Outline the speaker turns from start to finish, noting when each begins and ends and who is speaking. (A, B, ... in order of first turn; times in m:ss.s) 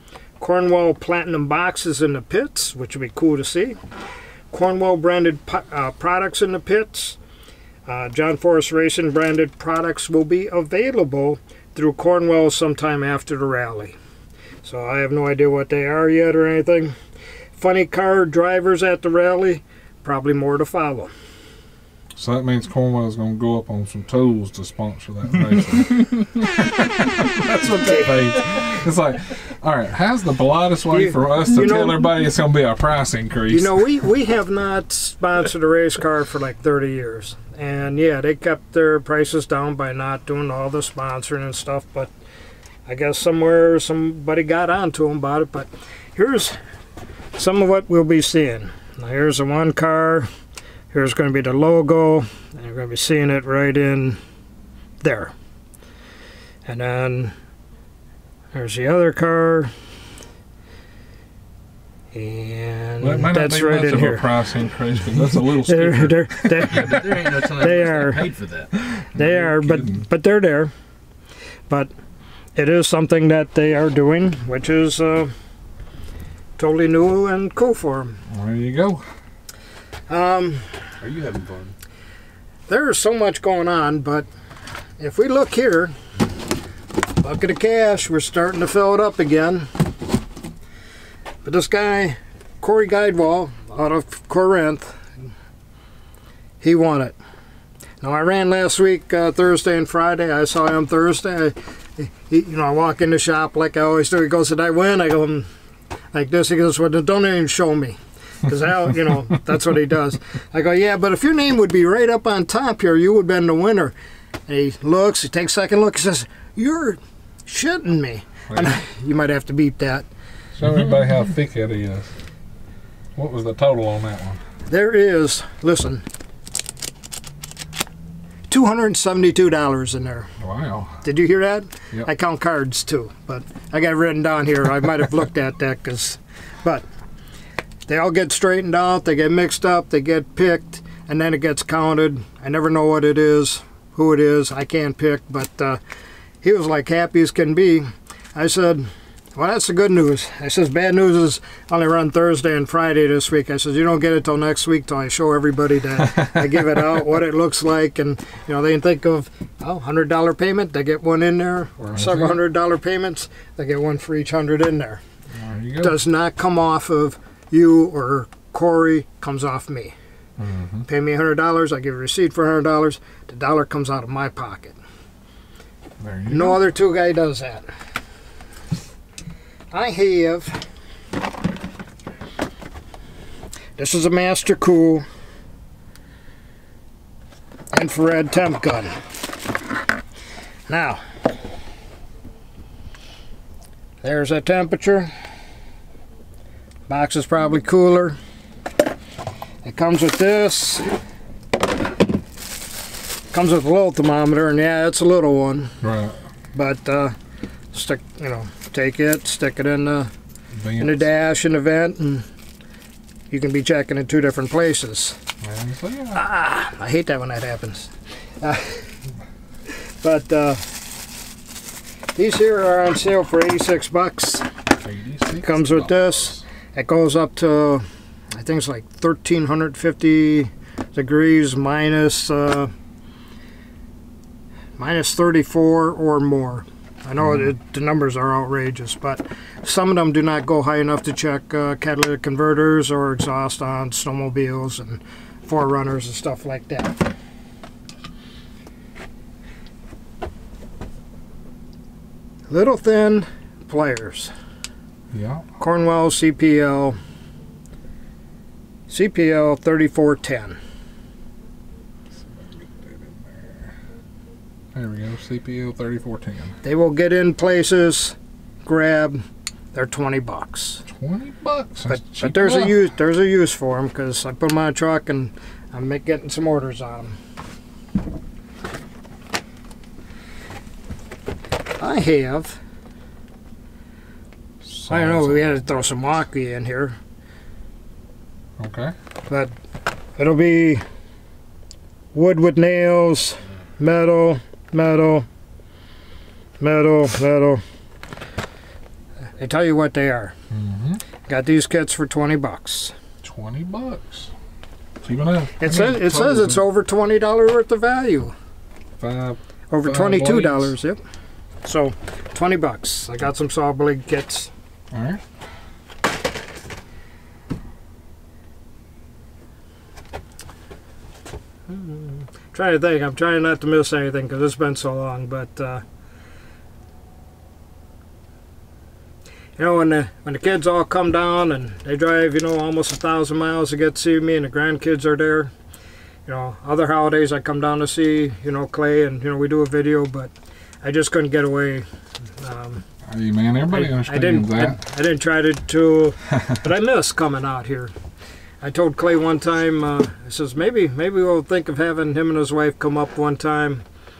0:00.4-0:03.8 A
0:04.5-0:07.2 A
0:07.8-0:13.9 A
0:14.6-0:16.9 A
0:17.6-0:21.1 A
0:22.2-0:33.7 B
0:27.8-0:28.4 A
0:30.9-0:32.1 A
0:33.5-0:42.1 A
0:42.8-0:46.6 A
0:47.3-0:50.3 A
0:50.9-0:54.2 A
0:55.0-0:55.3 A
0:56.6-0:57.3 A
0:58.5-0:59.7 A
1:02.1-1:04.3 A
1:03.0-1:06.9 B
1:05.3-1:08.2 A
1:06.7-1:08.7 C
1:08.8-1:10.0 B
1:09.1-1:10.7 A
1:12.6-1:15.3 A
1:16.6-1:18.2 A
1:18.3-1:19.0 B
1:20.1-1:20.8 A
1:21.1-1:21.7 B
1:21.1-1:21.7 C
1:22.7-1:24.3 A
1:25.0-1:25.9 A
1:27.2-1:29.7 A
1:31.4-1:35.1 A
1:36.6-1:37.1 A
1:38.0-1:45.4 A
1:46.1-1:53.9 A
1:54.5-2:00.0 A
1:58.5-1:58.8 B
2:00.6-2:02.1 B
2:03.1-2:04.4 B
2:04.7-2:06.0 A
2:08.5-2:10.3 A
2:10.4-2:11.0 B
2:11.0-2:16.8 A
2:17.9-2:25.8 A
2:26.4-2:45.0 A
2:41.8-2:42.4 B
2:45.3-2:46.0 B
2:45.8-2:49.9 A
2:50.4-2:50.8 B
2:50.9-2:54.8 A
2:56.0-2:56.6 B
2:56.3-2:57.6 A
2:59.7-3:00.6 A
3:03.8-3:05.0 A
3:07.7-3:08.9 A
3:10.7-3:11.0 A
3:14.0-3:15.1 A
3:16.9-3:18.2 A
3:19.6-3:20.8 A
3:23.3-3:25.7 A
3:25.8-3:26.2 B
3:26.5-3:27.1 A
3:27.7-3:30.1 A
3:30.6-3:31.1 B
3:30.8-3:32.2 A
3:33.3-3:35.2 A
3:35.4-3:36.2 B
3:36.1-3:38.9 A
3:40.0-3:40.6 A
3:42.1-3:44.4 A
3:44.8-3:46.4 B
3:45.4-3:47.8 A
3:48.3-3:52.7 A
3:54.8-4:07.0 A
4:12.5-4:14.3 A
4:15.1-4:15.4 B
4:15.6-4:17.0 A
4:18.9-4:20.6 A
4:22.3-4:23.6 B
4:24.7-4:26.6 B
4:26.6-4:29.2 A
4:29.7-4:30.8 A
4:30.9-4:32.7 B
4:31.9-4:37.2 A
4:41.8-4:42.6 A
4:44.6-4:45.7 B
4:44.9-4:47.0 A
4:48.6-4:48.9 B
4:50.2-4:50.8 A
4:52.1-4:55.2 A
4:56.6-4:57.6 A
4:59.4-5:00.3 A
5:00.5-5:01.0 B
5:01.3-5:02.9 A
5:03.2-5:04.3 B
5:05.0-5:06.6 B
5:05.6-5:08.3 A
5:09.0-5:10.7 B
5:09.7-5:11.0 A
5:11.6-5:14.5 A
5:14.9-5:15.2 B
5:21.7-5:25.8 A
5:29.6-5:35.5 A
5:36.2-5:41.8 A
5:42.4-5:42.8 A
5:43.1-5:44.8 B
5:43.7-5:47.9 A
5:48.6-5:53.8 A